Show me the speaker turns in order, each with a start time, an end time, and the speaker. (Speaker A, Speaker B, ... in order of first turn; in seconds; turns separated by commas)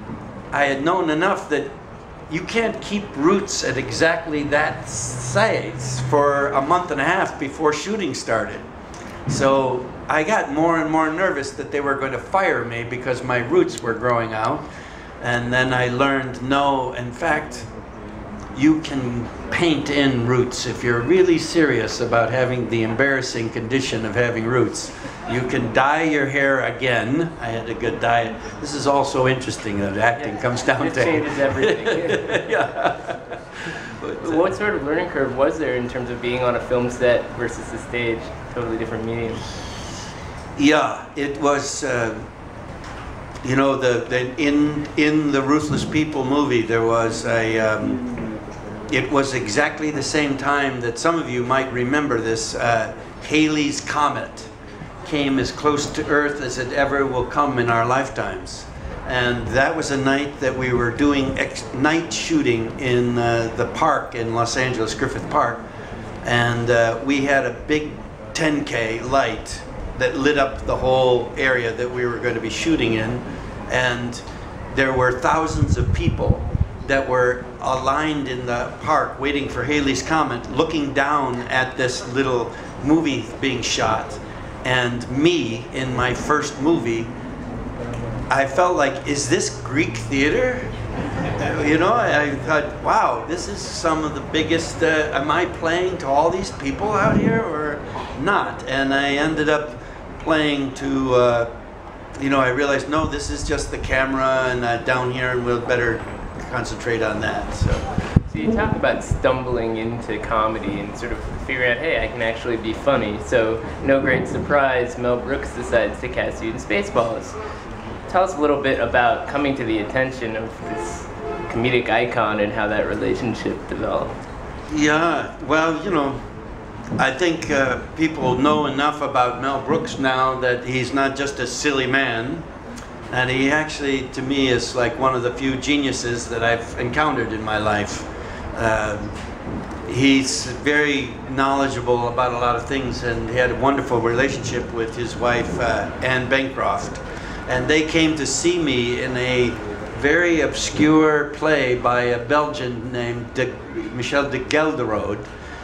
Speaker A: 0.5-1.7, Speaker A: 2.3-8.6, Speaker A: 9.3-14.6, Speaker A: 15.2-17.7, Speaker A: 18.6-33.3, Speaker B: 30.2-32.6, Speaker A: 34.0-34.4, Speaker B: 34.2-39.4, Speaker A: 40.6-42.2, Speaker A: 43.4-48.0, Speaker A: 48.9-54.5, Speaker A: 55.0-65.6, Speaker A: 66.2-87.1, Speaker A: 88.3-90.7, Speaker A: 91.4-101.5, Speaker A: 102.2-107.9, Speaker B: 108.3-117.3, Speaker B: 118.1-124.1, Speaker A: 124.7-126.2, Speaker A: 127.0-132.4, Speaker A: 133.1-139.1, Speaker A: 139.9-155.2